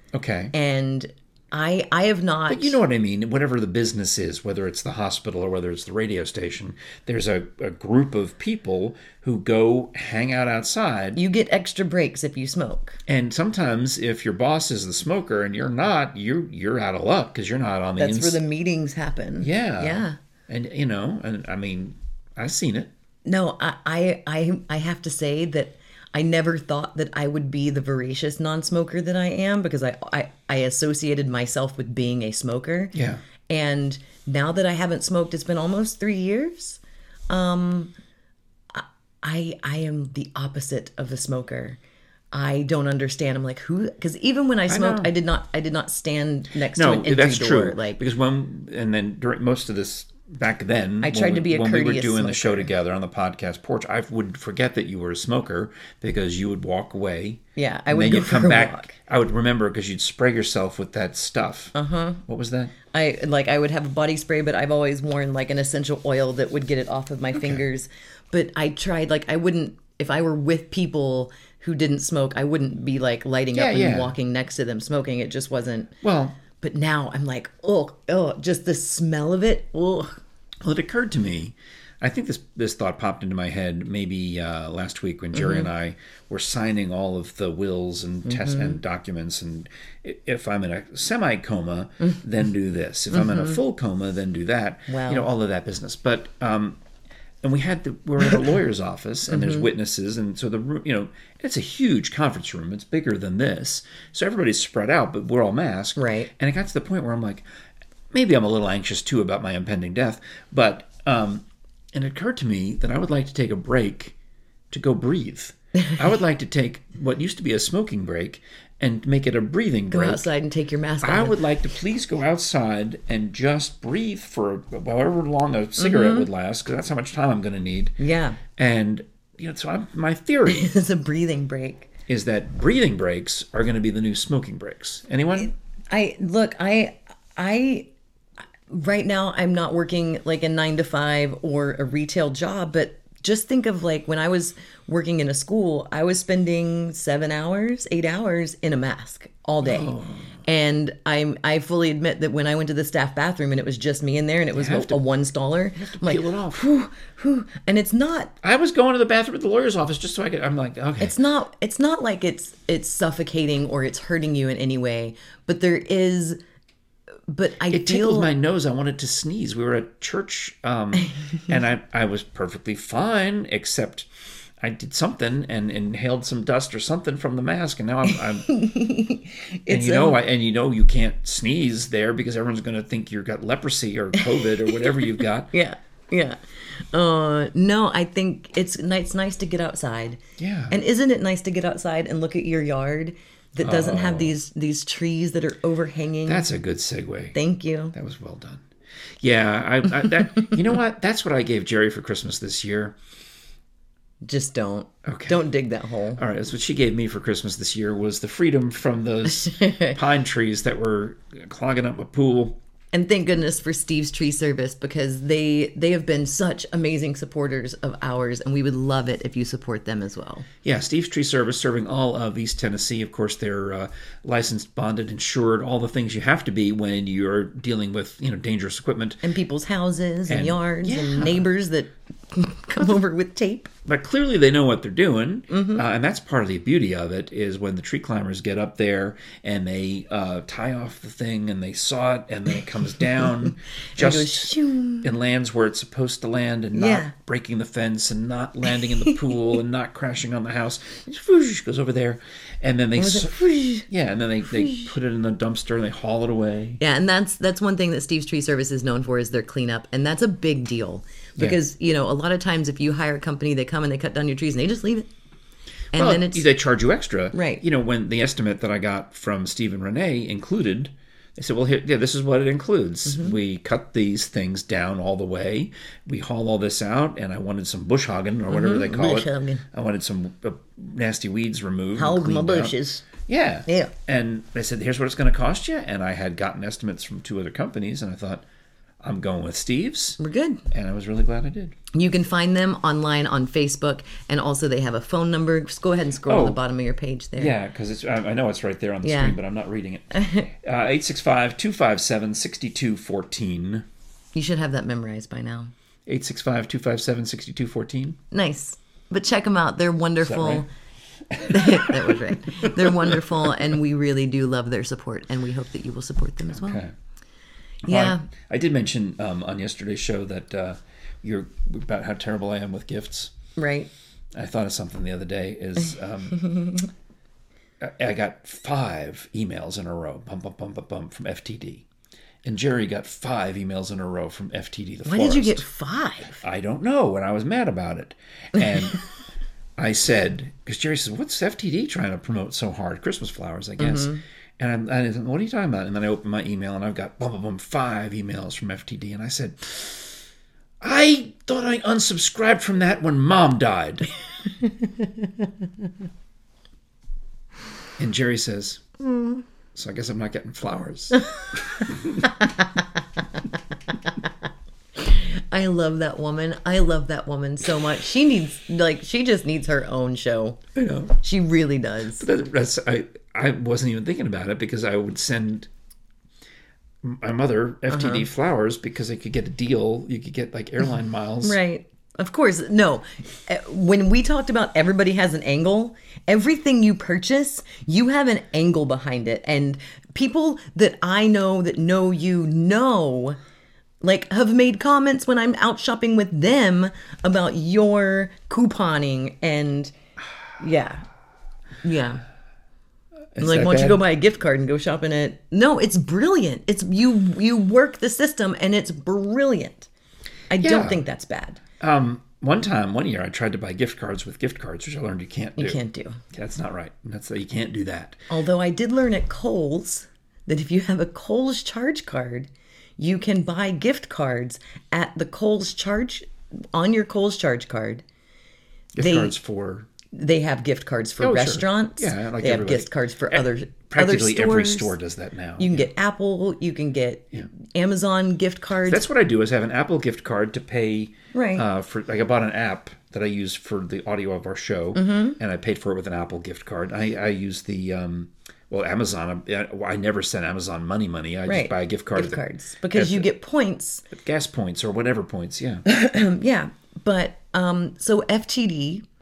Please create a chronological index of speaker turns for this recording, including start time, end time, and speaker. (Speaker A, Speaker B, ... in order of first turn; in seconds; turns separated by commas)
Speaker A: 0.1-0.5, Speaker B: 0.5-2.8, Speaker A: 2.5-11.2, Speaker B: 11.2-13.0, Speaker A: 13.1-18.4, Speaker B: 18.0-20.2, Speaker A: 19.4-22.9, Speaker B: 23.2-33.0, Speaker A: 32.9-33.2, Speaker B: 33.5-37.9, Speaker B: 38.7-41.8, Speaker B: 42.3-48.0, Speaker A: 44.7-45.1, Speaker A: 46.7-61.7, Speaker B: 51.0-52.7, Speaker B: 57.6-58.9, Speaker B: 61.7-62.2, Speaker A: 62.3-62.8, Speaker B: 62.9-75.9, Speaker A: 67.3-67.6, Speaker A: 73.5-74.2, Speaker A: 76.0-76.4, Speaker B: 76.5-80.1, Speaker A: 80.6-96.8, Speaker B: 85.3-85.7, Speaker B: 88.3-88.8, Speaker B: 94.9-95.3, Speaker A: 97.4-107.5, Speaker B: 99.3-99.7, Speaker B: 106.0-106.3, Speaker A: 108.1-114.2, Speaker A: 114.7-120.3, Speaker B: 119.9-121.4, Speaker A: 121.0-128.0, Speaker B: 125.8-126.3, Speaker B: 128.0-128.4, Speaker A: 128.6-130.7, Speaker B: 130.5-131.9, Speaker A: 132.1-135.5, Speaker B: 135.3-137.9, Speaker B: 138.7-158.3, Speaker A: 149.6-150.4, Speaker A: 154.5-155.0, Speaker A: 155.8-156.7, Speaker A: 158.4-161.2, Speaker B: 161.0-166.4, Speaker B: 167.3-168.3, Speaker A: 167.7-174.1, Speaker A: 174.6-178.5, Speaker B: 178.4-180.2, Speaker A: 179.7-185.5, Speaker B: 184.2-196.5, Speaker A: 190.4-190.8, Speaker A: 193.6-194.3, Speaker A: 196.2-197.4, Speaker B: 197.3-197.9, Speaker A: 197.9-198.7, Speaker A: 199.2-203.0, Speaker B: 204.2-206.2, Speaker A: 205.1-205.4, Speaker A: 206.2-212.6, Speaker B: 209.3-210.0, Speaker B: 212.9-220.5, Speaker A: 220.6-229.2, Speaker B: 229.2-233.7, Speaker A: 230.3-231.4, Speaker A: 233.9-253.3, Speaker B: 235.5-235.8, Speaker B: 243.9-245.1, Speaker B: 246.8-247.1, Speaker B: 248.8-249.1, Speaker B: 253.0-253.9, Speaker A: 253.9-256.8, Speaker B: 254.5-254.9, Speaker B: 256.8-265.1, Speaker B: 265.9-266.5, Speaker A: 265.9-288.4, Speaker B: 267.3-267.6, Speaker B: 273.1-273.4, Speaker B: 278.5-279.6, Speaker B: 282.0-283.1, Speaker B: 283.7-283.9, Speaker A: 289.0-290.2, Speaker B: 290.2-290.6, Speaker A: 290.7-291.8, Speaker B: 291.9-297.5, Speaker A: 296.3-296.6, Speaker A: 297.4-303.9, Speaker B: 299.0-299.4, Speaker B: 300.1-300.5, Speaker B: 304.3-305.7, Speaker A: 306.1-308.2, Speaker B: 308.3-310.7, Speaker A: 310.2-310.7, Speaker A: 311.3-313.6, Speaker B: 311.4-316.8, Speaker A: 316.5-316.9, Speaker A: 317.9-323.3, Speaker B: 317.9-318.2, Speaker B: 323.6-323.9, Speaker A: 324.3-326.4, Speaker B: 326.3-326.9, Speaker A: 327.8-331.9, Speaker A: 332.4-335.7, Speaker B: 335.1-336.4, Speaker A: 336.4-339.0, Speaker A: 339.8-350.2, Speaker B: 343.8-344.2, Speaker A: 350.8-354.1, Speaker A: 358.0-358.8, Speaker A: 359.8-362.3, Speaker B: 365.0-370.6, Speaker A: 370.8-371.2, Speaker B: 371.2-372.3, Speaker A: 372.2-375.7, Speaker A: 377.0-381.6, Speaker B: 377.9-378.3, Speaker B: 381.4-393.4, Speaker B: 394.0-399.9, Speaker B: 400.6-401.0, Speaker B: 401.8-402.2, Speaker A: 403.4-404.0, Speaker B: 403.4-409.9, Speaker B: 410.5-411.6, Speaker A: 410.6-411.0, Speaker A: 411.8-415.8, Speaker B: 415.6-416.2, Speaker A: 416.3-418.2, Speaker B: 418.3-428.0, Speaker A: 428.9-429.9, Speaker B: 429.0-429.4, Speaker B: 430.1-434.9, Speaker A: 431.2-435.9, Speaker B: 435.6-439.1, Speaker A: 438.9-453.3, Speaker B: 441.3-441.6, Speaker B: 444.9-445.4, Speaker B: 451.5-454.1, Speaker A: 454.1-455.8, Speaker B: 455.9-459.1